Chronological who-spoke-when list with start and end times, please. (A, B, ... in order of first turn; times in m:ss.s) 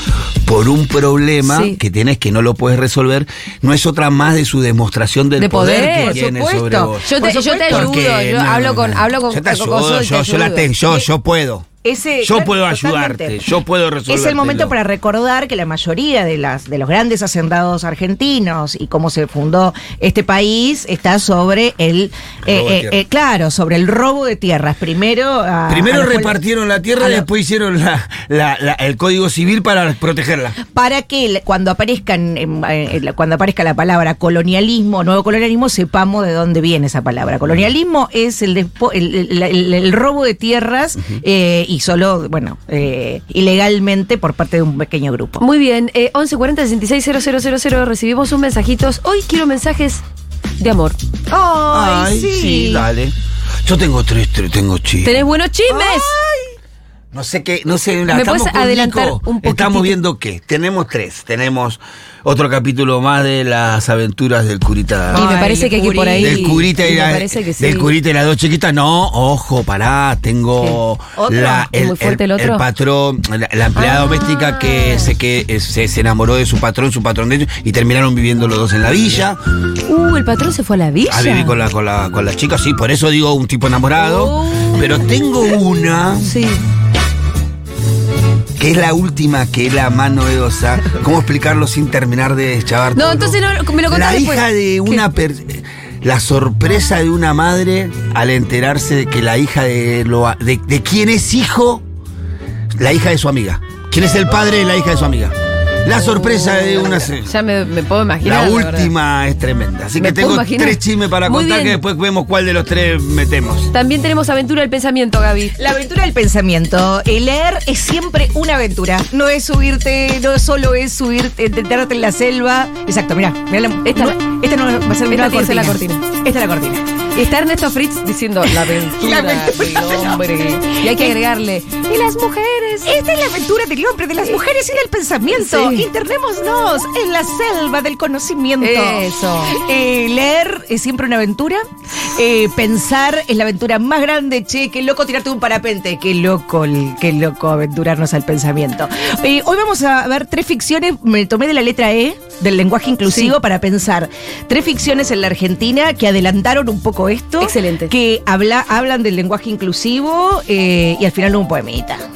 0:00.4-0:07.2 A
0:01.5-0:01.8 B
0:05.4-0:06.2 B
0:05.8-0:08.0 C
0:07.0-0:10.7 B
0:07.7-0:11.7 A
0:11.8-0:13.4 C
0:12.2-0:14.8 A
0:14.1-0:26.4 C
0:22.5-0:23.0 A
0:25.7-0:30.6 A
0:27.0-0:27.3 C
0:30.6-0:45.4 C
0:45.4-0:50.0 B
0:50.6-0:51.0 B
0:51.3-0:52.9 C
0:51.7-0:55.2 A
0:55.0-0:56.1 B
0:55.7-0:56.5 C
0:57.1-1:05.3 A
0:58.1-1:00.0 B
1:05.1-1:07.9 B
1:05.1-1:06.6 C
1:06.2-1:19.4 A
1:11.2-1:11.7 C
1:11.6-1:12.6 B
1:13.8-1:15.1 B
1:19.9-1:21.6 B
1:21.1-1:26.3 A
1:24.0-1:25.0 B
1:26.2-1:26.6 B
1:28.6-1:41.8 A
1:32.9-1:35.1 B
1:42.8-1:47.3 A
1:47.1-1:48.9 B
1:48.2-1:53.7 A
1:50.0-1:51.8 B
1:53.7-1:55.6 B
1:55.6-2:06.8 C
2:03.8-2:04.2 B
2:05.0-2:06.1 B
2:07.1-2:12.9 B
2:08.8-2:11.2 C
2:12.8-2:42.0 C
2:15.3-2:15.9 B
2:18.6-2:19.6 B
2:33.1-2:33.4 B
2:37.4-2:37.9 B